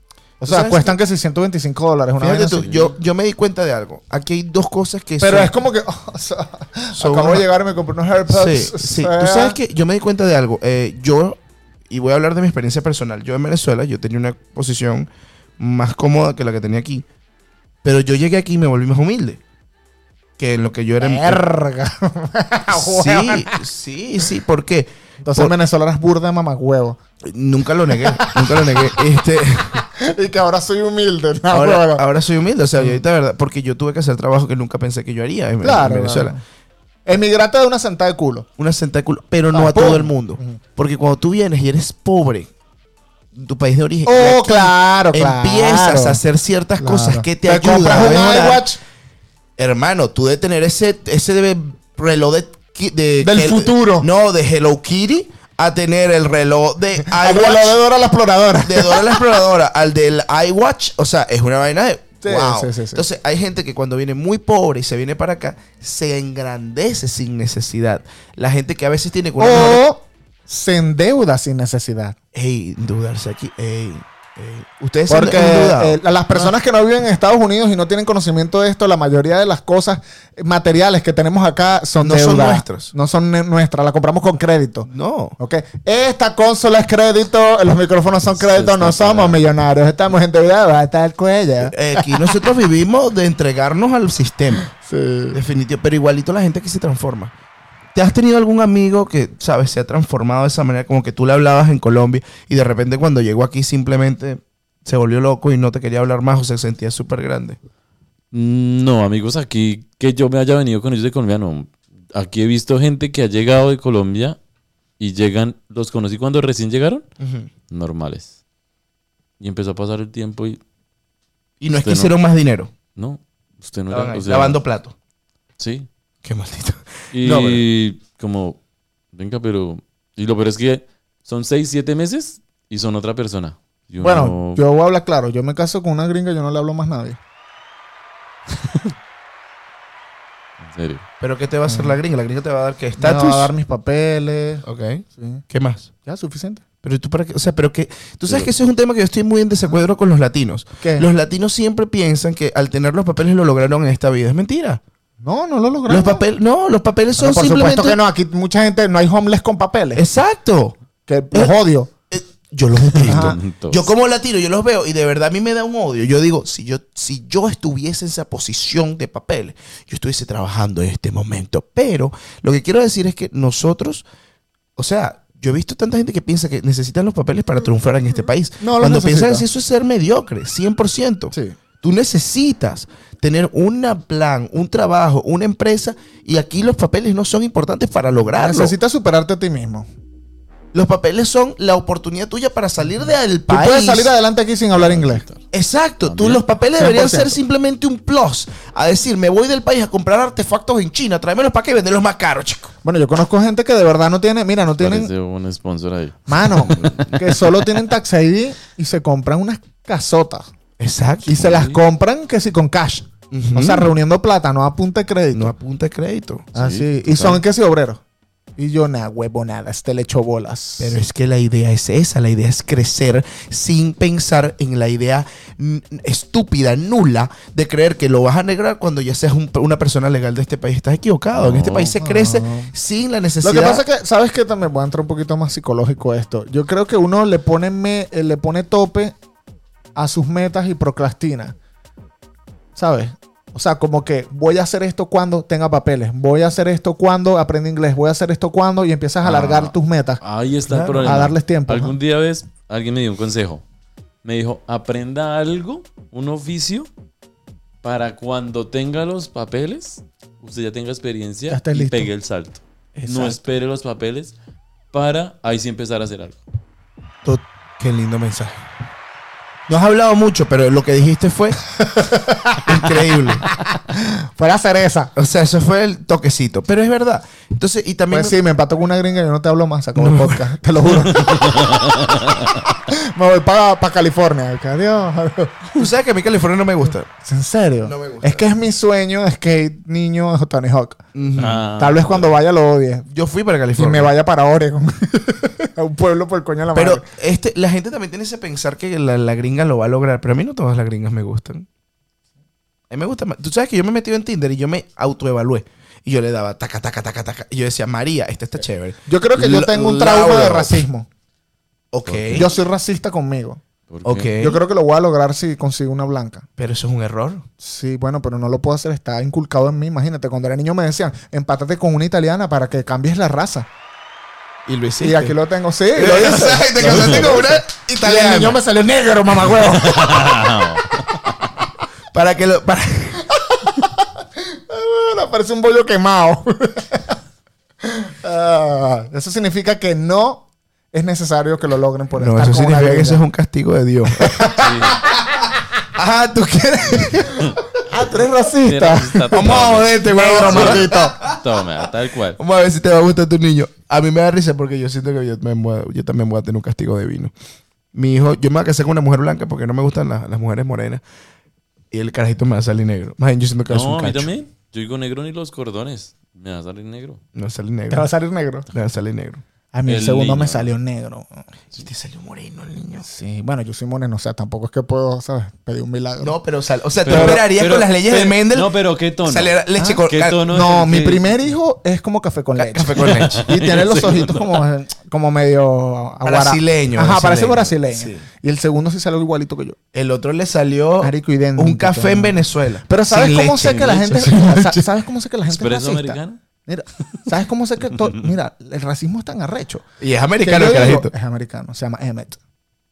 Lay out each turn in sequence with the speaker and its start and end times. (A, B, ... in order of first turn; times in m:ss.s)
0:00.4-0:02.8 A
0:00.4-0:01.0 B
0:02.2-0:05.5 B
0:02.6-0:02.9 C
0:05.2-0:09.6 A
0:07.0-0:07.5 B
0:08.3-0:17.1 B
0:17.8-0:19.4 B
0:20.4-0:21.4 B
0:21.0-0:23.6 A
0:22.7-0:25.5 B
0:25.2-0:27.0 A
0:27.2-0:29.8 B
0:27.9-0:29.1 A
0:29.8-0:32.0 A
0:31.5-0:36.4 B
0:32.8-0:33.0 A
0:35.6-0:36.4 A
0:37.1-0:38.5 A
0:38.6-0:42.5 B
0:39.5-0:40.6 A
0:43.3-0:48.7 B
0:44.1-0:46.2 A
0:46.8-0:48.8 A
0:49.6-0:57.8 B
0:53.2-0:54.1 A
0:57.1-0:59.2 A
0:58.6-1:09.8 B
1:02.2-1:03.0 A
1:09.4-1:12.2 A
1:12.3-1:16.5 B
1:15.1-1:32.3 A
1:22.0-1:22.9 B
1:24.9-1:25.4 B
1:28.5-1:29.4 B
1:31.6-1:34.7 B
1:34.7-1:35.4 A
1:35.3-1:37.3 B
1:38.0-1:47.6 B
1:48.3-1:54.4 C
1:55.0-1:57.1 C
1:57.2-1:57.5 B
1:57.7-1:58.3 C
1:59.4-2:00.6 C
2:01.6-2:02.7 B
2:01.8-2:02.2 C
2:03.0-2:04.6 C
2:03.9-2:05.0 B
2:05.6-2:05.9 C
2:06.2-2:06.8 B
2:07.1-2:08.6 C
2:07.2-2:07.6 A
2:09.1-2:14.6 C
2:14.0-2:17.2 A
2:18.5-2:18.9 C
2:20.6-2:21.0 C
2:21.2-2:23.5 B
2:21.7-2:22.0 A
2:23.0-2:24.6 A
2:24.6-2:25.9 B
2:25.2-2:25.4 A
2:26.0-2:26.6 A
2:26.8-2:34.8 B
2:30.8-2:31.1 A
2:35.2-2:36.3 A
2:35.9-2:38.0 B
2:37.2-2:40.0 A
2:40.0-2:40.8 B
2:41.1-2:41.9 A
2:42.1-2:54.1 B
2:43.0-2:43.9 C
2:43.0-2:43.4 A
2:54.8-3:08.8 B
2:58.6-2:59.5 A
3:08.3-3:09.9 A
3:10.7-3:14.1 B
3:13.5-3:15.2 A
3:14.7-3:15.4 C
3:15.5-3:22.7 B
3:16.0-3:16.4 C
3:16.8-3:17.4 A
3:22.8-3:25.1 A
3:24.8-3:26.9 C
3:26.3-3:30.5 A
3:26.5-3:27.4 B
3:30.8-3:31.5 B
3:31.3-3:35.5 A
3:31.4-3:31.8 C
3:33.3-3:33.9 B
3:35.3-3:36.5 B
3:36.5-3:38.0 A
3:36.6-3:37.4 C
3:38.6-3:41.0 A
3:40.8-3:53.9 B
3:51.3-3:52.0 C
3:52.0-3:52.7 A
3:53.4-3:59.2 A
4:00.0-4:01.6 A
4:02.8-4:10.2 A
4:09.2-4:13.6 C
4:10.8-4:12.0 A
4:14.2-4:16.9 C
4:17.8-4:24.4 C
4:21.5-4:22.1 A
4:23.0-4:23.4 A
4:24.9-4:26.4 C
4:27.2-4:28.6 B
4:29.7-4:31.6 B
4:31.9-4:35.1 A
4:32.6-4:33.4 B
4:35.2-4:38.4 B
4:38.1-4:45.7 A
4:40.0-4:40.4 B
4:41.1-4:42.6 C
4:45.7-4:47.1 B
4:47.2-4:51.0 A
4:47.8-4:48.5 B
4:51.2-4:51.6 B
4:51.4-4:52.3 C
4:51.8-4:53.1 A
4:53.1-4:54.1 B
4:53.8-4:57.0 A
4:56.7-5:01.7 B
5:02.9-5:10.8 B
5:09.1-5:11.1 A
5:11.9-5:12.5 B
5:12.1-5:12.5 C
5:12.3-5:13.6 A
5:13.9-5:14.4 C
5:14.0-5:14.6 B
5:14.4-5:16.5 A
5:16.6-5:17.4 B
5:17.6-5:23.7 A
5:24.7-5:25.4 B
5:25.0-5:30.6 A
5:25.9-5:28.6 B
5:29.5-5:31.3 C
5:32.1-5:33.2 B
5:33.3-5:37.2 A
5:37.8-5:43.2 A
5:42.2-5:44.6 B
5:44.2-5:45.5 A
5:44.5-5:45.1 C
5:45.9-5:47.5 B
5:47.3-5:51.2 A
5:48.6-5:52.4 C
5:49.3-5:51.4 B
5:52.4-5:57.3 B
5:57.9-6:01.0 B
6:01.9-6:04.3 B
6:03.7-6:07.2 C
6:07.3-6:08.1 B
6:07.9-6:08.7 A
6:08.7-6:09.4 B
6:09.7-6:11.4 A
6:09.9-6:10.7 C
6:11.7-6:13.0 B
6:13.0-6:16.4 A
6:16.2-6:18.7 B
6:17.0-6:21.5 C
6:17.1-6:17.4 A
6:19.3-6:20.5 B
6:19.8-6:29.8 A
6:22.6-6:23.4 B
6:23.0-6:24.6 C
6:26.2-6:28.3 B
6:29.9-6:34.9 B
6:31.0-6:39.8 A
6:33.7-6:34.0 C
6:35.5-6:36.4 C
6:40.0-6:41.1 B
6:40.4-6:42.4 A